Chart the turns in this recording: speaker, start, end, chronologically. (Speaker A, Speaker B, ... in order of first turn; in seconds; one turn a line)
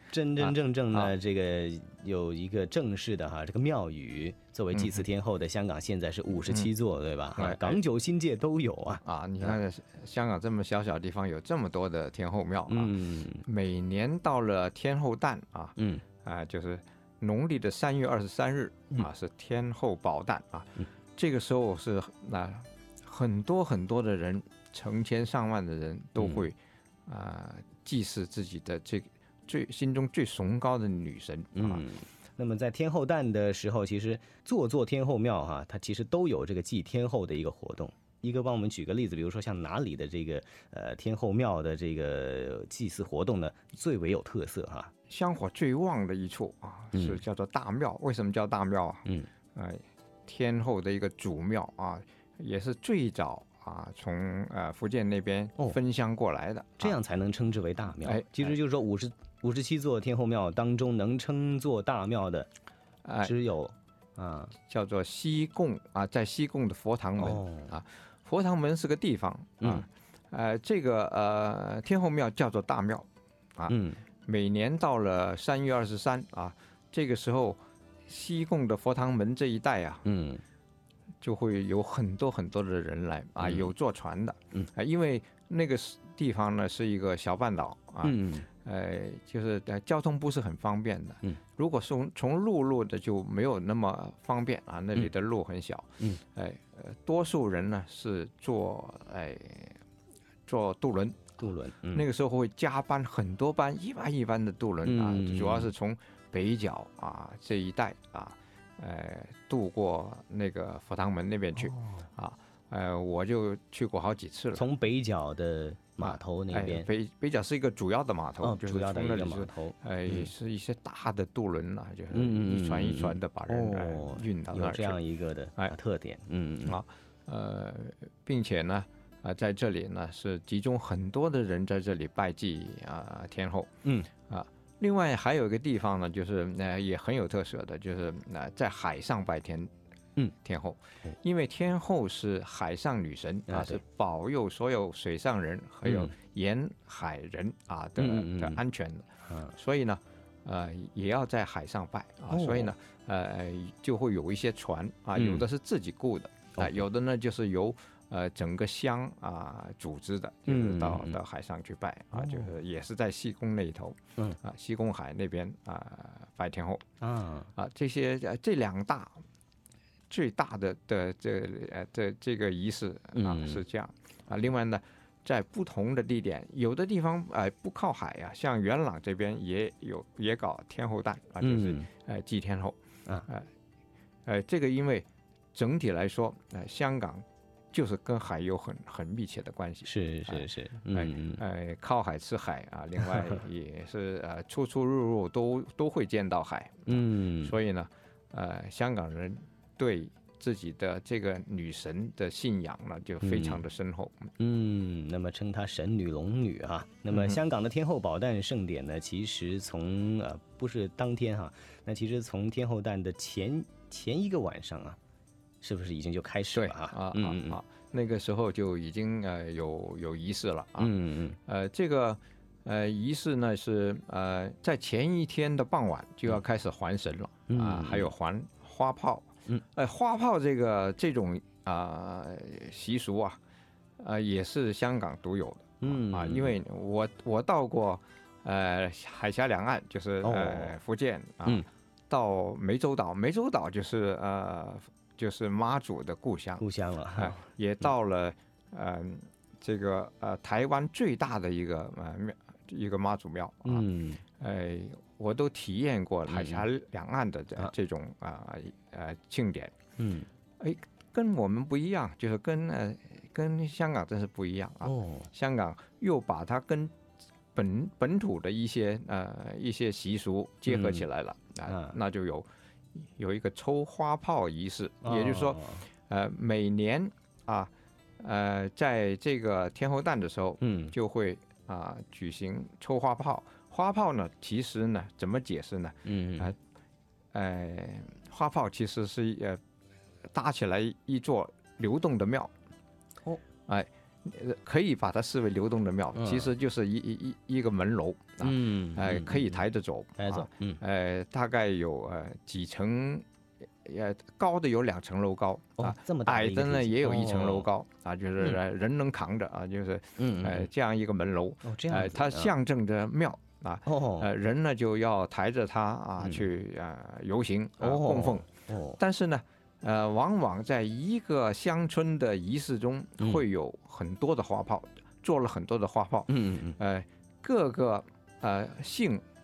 Speaker A: 0.1-9.5
Speaker B: 0.4-1.1
Speaker B: 4.7-5.0
Speaker B: 7.3-7.8
Speaker B: 9.0-31.9
Speaker A: 12.7-13.4
Speaker A: 15.8-16.0
Speaker A: 26.2-26.4
Speaker A: 31.5-44.9
Speaker B: 45.1-57.0
Speaker A: 46.9-47.2
Speaker A: 56.8-62.5
Speaker B: 58.0-58.5
Speaker B: 63.0-63.3
Speaker A: 63.2-64.5
Speaker B: 64.7-73.0
Speaker A: 67.2-67.7
Speaker B: 73.6-80.0
Speaker A: 73.7-74.0
Speaker A: 80.0-80.4
Speaker B: 81.2-99.8
Speaker A: 88.0-88.5
Speaker B: 100.5-101.3
Speaker A: 101.4-102.0
Speaker B: 101.9-114.7
Speaker A: 104.8-105.7
Speaker A: 111.6-112.0
Speaker A: 114.5-116.9
Speaker B: 116.0-125.0
Speaker A: 118.4-120.3
Speaker A: 122.1-126.8
Speaker B: 126.7-133.7
Speaker A: 133.8-134.1
Speaker B: 134.3-139.7
Speaker B: 140.4-166.8
Speaker A: 143.5-143.8
Speaker A: 145.8-146.1
Speaker A: 148.0-148.6
Speaker A: 149.3-149.5
Speaker A: 152.3-152.7
Speaker A: 155.2-155.4
Speaker A: 160.5-161.2
Speaker A: 162.2-162.5
Speaker A: 167.0-167.5
Speaker B: 167.5-169.2
Speaker B: 170.1-183.4
Speaker A: 173.1-173.6
Speaker A: 181.4-181.9
Speaker B: 184.2-204.3
Speaker A: 189.8-191.4
Speaker A: 196.9-197.5
Speaker A: 203.2-203.6
Speaker A: 204.4-215.0
Speaker B: 207.1-207.4
Speaker A: 215.6-217.6
Speaker B: 216.5-220.9
Speaker A: 220.8-221.4
Speaker B: 221.4-233.4
Speaker A: 227.5-228.1
Speaker B: 234.0-246.6
Speaker A: 235.8-236.6
Speaker A: 240.2-240.8
Speaker A: 246.6-247.4
Speaker B: 247.2-253.8
Speaker A: 253.6-254.2
Speaker B: 254.4-259.7
Speaker A: 256.3-256.6
Speaker A: 260.0-260.3
Speaker B: 260.6-266.9
Speaker A: 264.8-265.3
Speaker B: 267.5-272.5
Speaker A: 270.7-271.0
Speaker A: 271.7-271.9
Speaker B: 273.0-286.6
Speaker A: 275.0-275.9
Speaker A: 280.6-280.9
Speaker A: 286.0-286.5
Speaker B: 287.3-289.6
Speaker B: 290.3-292.5
Speaker B: 293.7-303.2
Speaker A: 296.1-296.5
Speaker A: 298.4-299.6
Speaker A: 300.2-300.8
Speaker B: 303.8-329.2
Speaker A: 305.8-307.7
Speaker A: 310.2-310.7
Speaker A: 311.6-312.5
Speaker A: 313.9-314.3
Speaker A: 317.8-319.0
Speaker A: 326.3-326.8